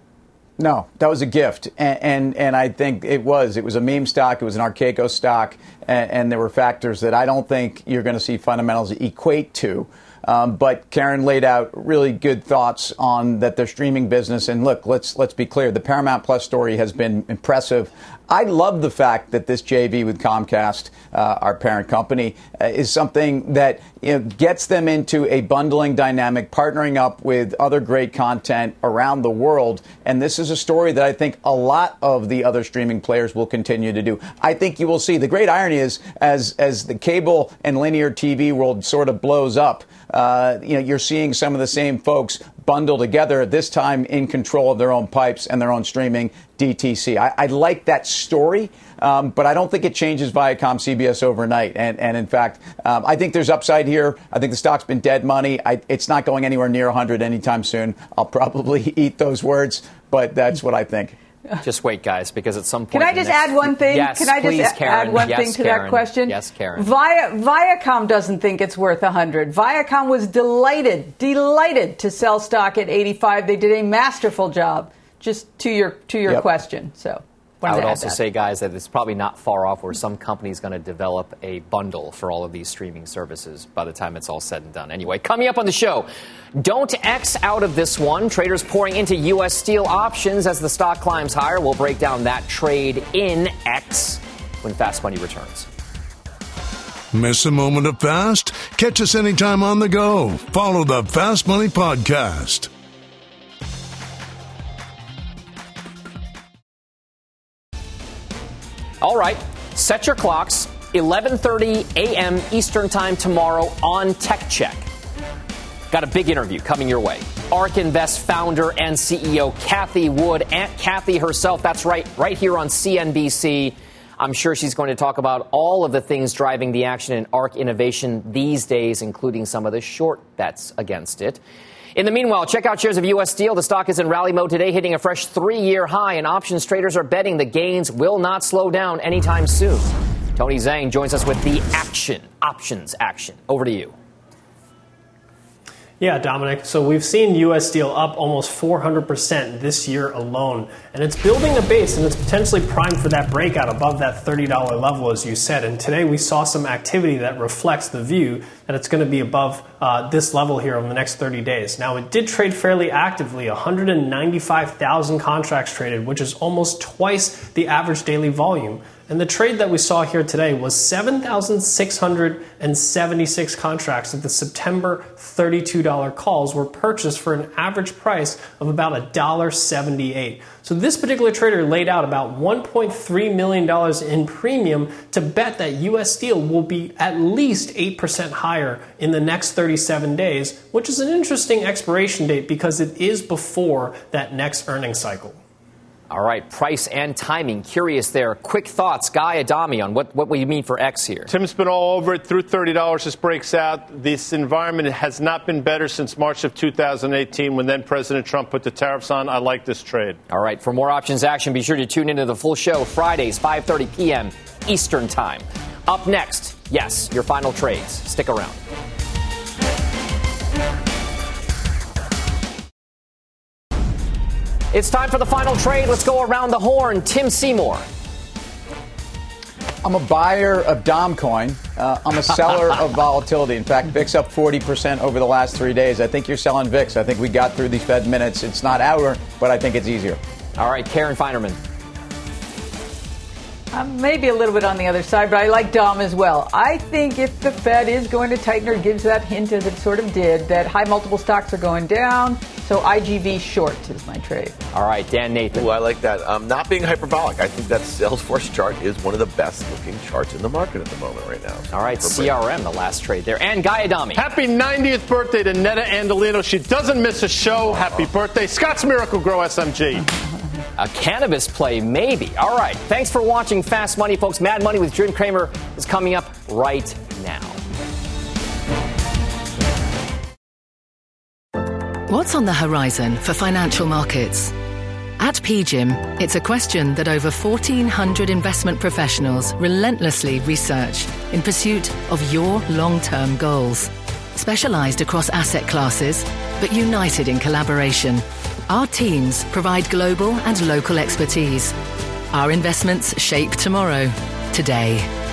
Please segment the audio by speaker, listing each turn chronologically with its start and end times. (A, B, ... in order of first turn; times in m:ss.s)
0:00.6-1:01.2 A
1:01.6-1:06.9 B
1:02.9-1:18.2 C
1:17.7-1:35.7 B
1:37.1-1:42.7 D
1:49.0-1:54.9 B
1:55.9-2:11.4 B
2:12.0-2:23.9 B
2:26.0-3:15.4 E
3:16.1-3:21.3 B
3:21.3-3:30.2 F
3:30.3-3:38.6 B
3:44.7-3:47.9 B
3:49.8-4:00.2 A
4:00.6-4:01.6 B
4:03.7-4:14.6 C
4:14.7-4:15.7 B
4:15.5-4:22.4 G
4:21.7-4:24.2 B
4:24.2-4:30.1 F
4:27.6-4:28.1 G
4:30.8-4:37.6 B
4:42.1-4:44.5 H
4:45.2-5:01.8 H
5:02.3-5:05.1 H